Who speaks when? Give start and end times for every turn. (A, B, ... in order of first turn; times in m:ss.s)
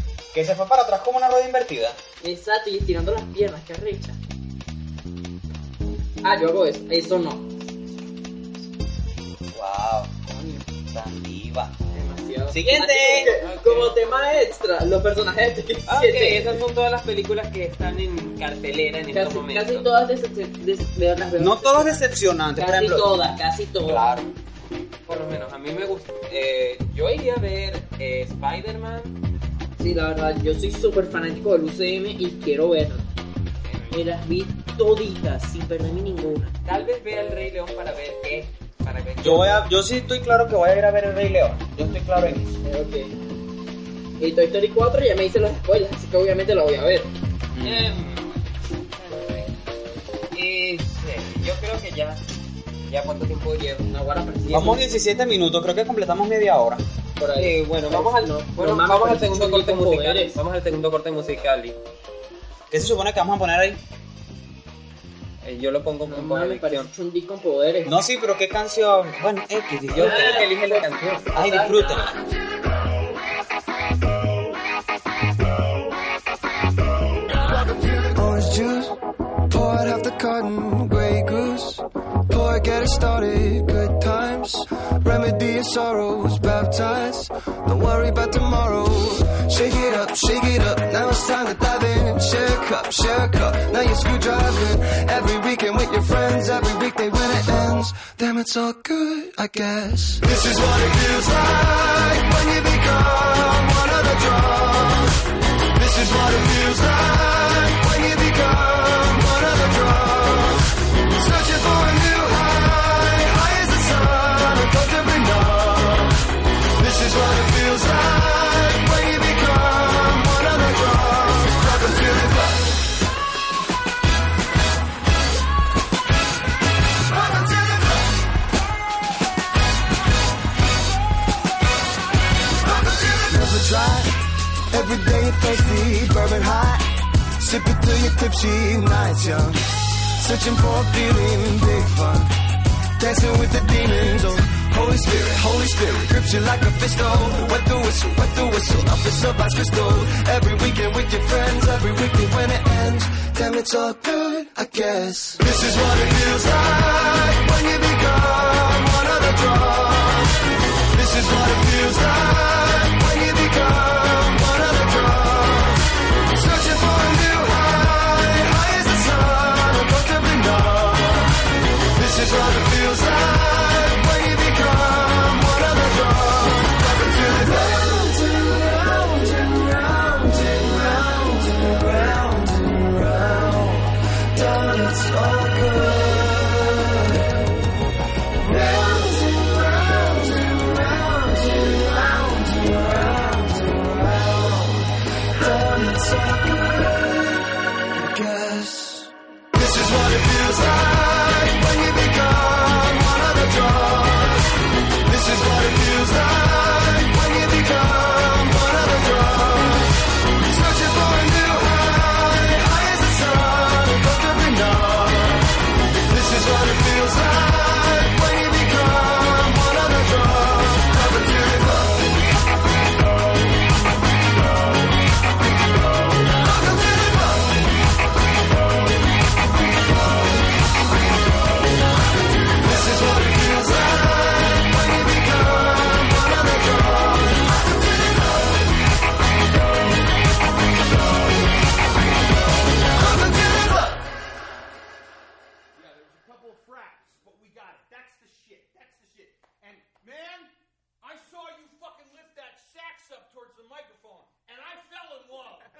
0:00.3-0:02.0 A
0:02.2-0:04.2 B
0:06.2-0:07.5 B
0:09.5-0:10.1 A
0:10.3-0:10.7 B
0:10.9-0:11.7 A
0:11.9-0:16.6 B
0:12.5-0:13.4 A
0:13.1-0:14.0 C
0:15.9-0:19.9 C
0:19.1-0:24.1 B
0:21.4-0:23.1 A
0:23.8-0:24.3 A
0:25.1-0:29.2 C
0:29.8-0:33.1 B
0:33.6-0:34.1 C
0:33.9-0:36.5 B
0:36.6-0:39.7 C
0:39.2-0:42.6 A
0:42.6-0:43.1 B
0:44.2-0:47.1 B
0:47.5-0:47.9 A
0:47.6-0:48.4 C
0:49.0-0:49.5 C
0:50.3-0:52.2 C
0:52.9-0:53.9 C
0:53.9-0:54.8 B
0:54.5-0:56.8 A
0:57.2-1:00.4 B
0:57.3-1:01.8 C
1:02.7-1:03.8 A
1:05.4-1:06.9 C
1:06.0-1:07.9 B
1:07.8-1:10.5 A
1:09.9-1:11.3 C
1:10.0-1:12.0 B
1:11.3-1:12.1 A
1:17.4-1:19.0 D
1:19.5-1:45.2 D
1:45.7-1:50.6 D
1:51.2-1:56.2 D
1:56.8-2:02.7 D
2:07.1-2:08.0 D
2:12.6-2:22.3 D
2:23.0-2:40.4 D
2:40.9-3:07.4 D
3:08.4-3:35.6 D
3:36.1-3:42.0 D
3:46.4-3:47.5 D
3:52.6-3:57.4 D
4:03.0-4:04.0 D
4:05.8-4:15.7 E